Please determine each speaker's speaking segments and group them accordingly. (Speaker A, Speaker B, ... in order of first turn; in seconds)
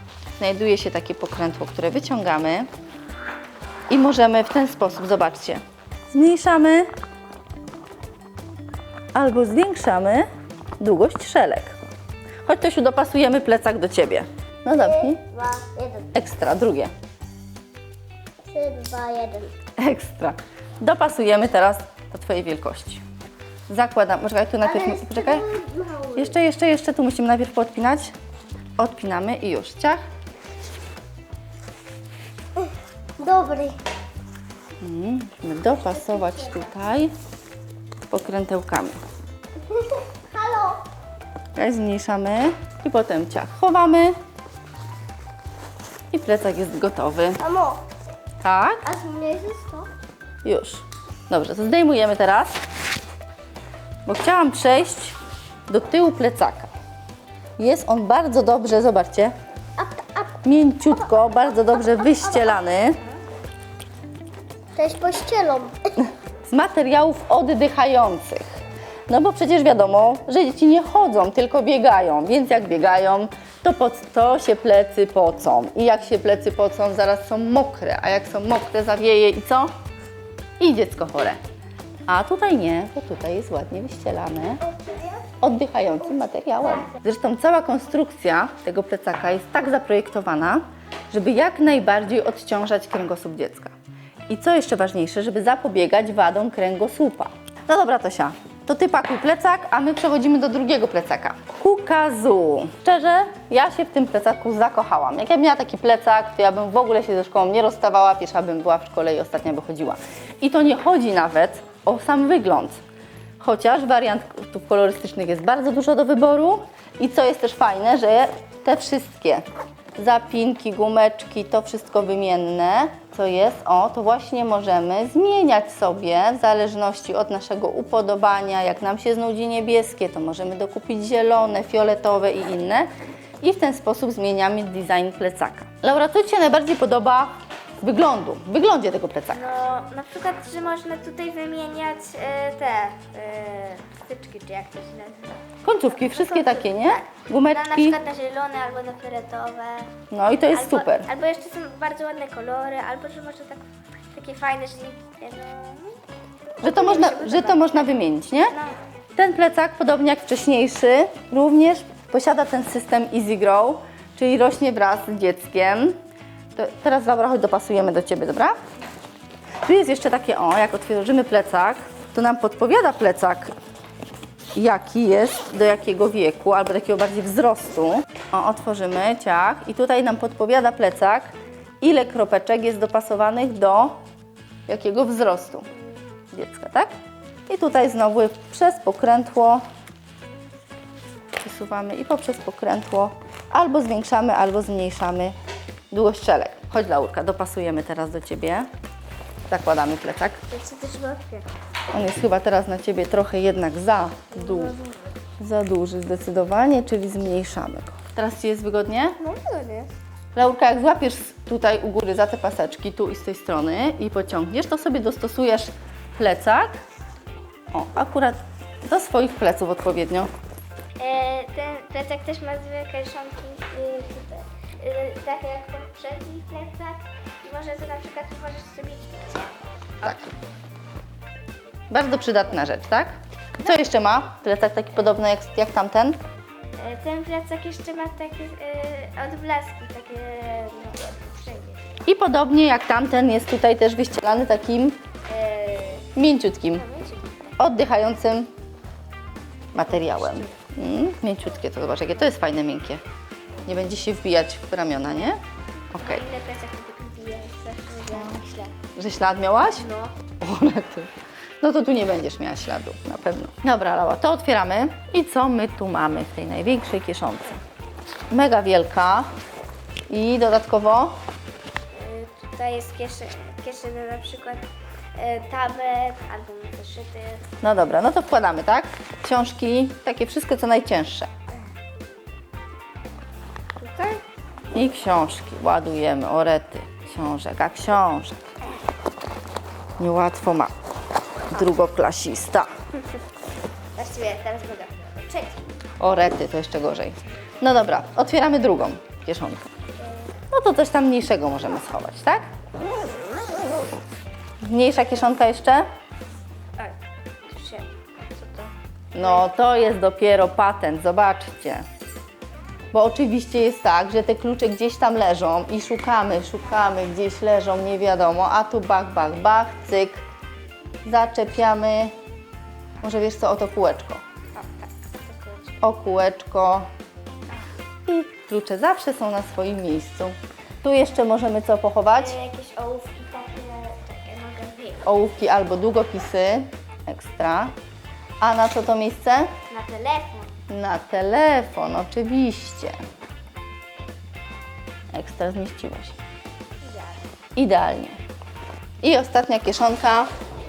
Speaker A: 0.4-2.7, 3.9-6.9, 9.1-10.2, 10.8-11.8, 12.4-15.2, 16.1-16.9, 19.8-23.0, 23.7-25.4, 26.1-28.1, 28.8-30.0, 34.8-37.1, 38.1-39.0, 41.5-44.1, 46.1-47.4, 48.4-48.8, 50.4-52.5, 54.0-55.1, 55.7-56.7, 57.6-59.3, 60.4-63.0, 66.0-68.5, 69.1-79.7, 80.6-81.4, 82.1-84.7, 85.4-93.7, 94.3-112.8, 113.4-119.4, 120.0-132.9, 133.4-139.4, 145.6-148.0, 150.1-151.1, 156.6-158.6, 159.1-166.0, 166.5-168.6, 169.6-173.5, 174.5-183.9, 184.7-185.7, 186.3-186.9, 187.5-189.6, 191.4-195.3, 195.9-198.7, 199.5-200.4, 201.9-204.8, 205.4-209.2, 210.3-216.8, 217.7-220.3, 230.0-230.4, 231.9-236.2, 242.0-245.0, 246.1-246.8, 247.6-248.5, 249.7-253.0, 253.6-255.4, 255.9-256.2, 258.9-267.6, 268.3-269.3, 270.1-271.1, 277.6-281.3, 284.7-288.4, 290.0-290.7, 291.5-292.7, 296.0-299.7, 300.5-302.4, 304.6-305.8, 309.1-311.8, 312.9-320.2, 321.0-322.1, 323.0-324.2, 325.8-326.9, 328.1-332.4, 335.0-337.7, 338.4-339.5, 340.7-343.0, 345.1-346.1, 347.5-348.2, 349.0-350.3
Speaker B: 14.8-16.1, 18.4-19.5, 24.6-26.4, 33.2-33.8, 36.2-36.5, 39.7-40.8, 47.4-47.8, 48.8-49.9, 59.8-60.4, 61.6-62.6, 64.7-65.7, 84.6-85.3
Speaker C: 139.3-149.9, 150.5-156.0, 156.6-157.8, 158.5-158.8, 200.5-201.4, 209.2-209.9, 221.0-229.6, 236.8-241.9, 245.3-246.1, 246.7-247.5, 249.8-250.5, 255.9-258.7, 259.7-260.1, 271.9-277.4, 283.8-284.2, 293.9-295.6, 300.0-300.3, 306.8-309.5, 324.5-325.9, 332.1-335.1, 339.7-340.5, 346.8-347.3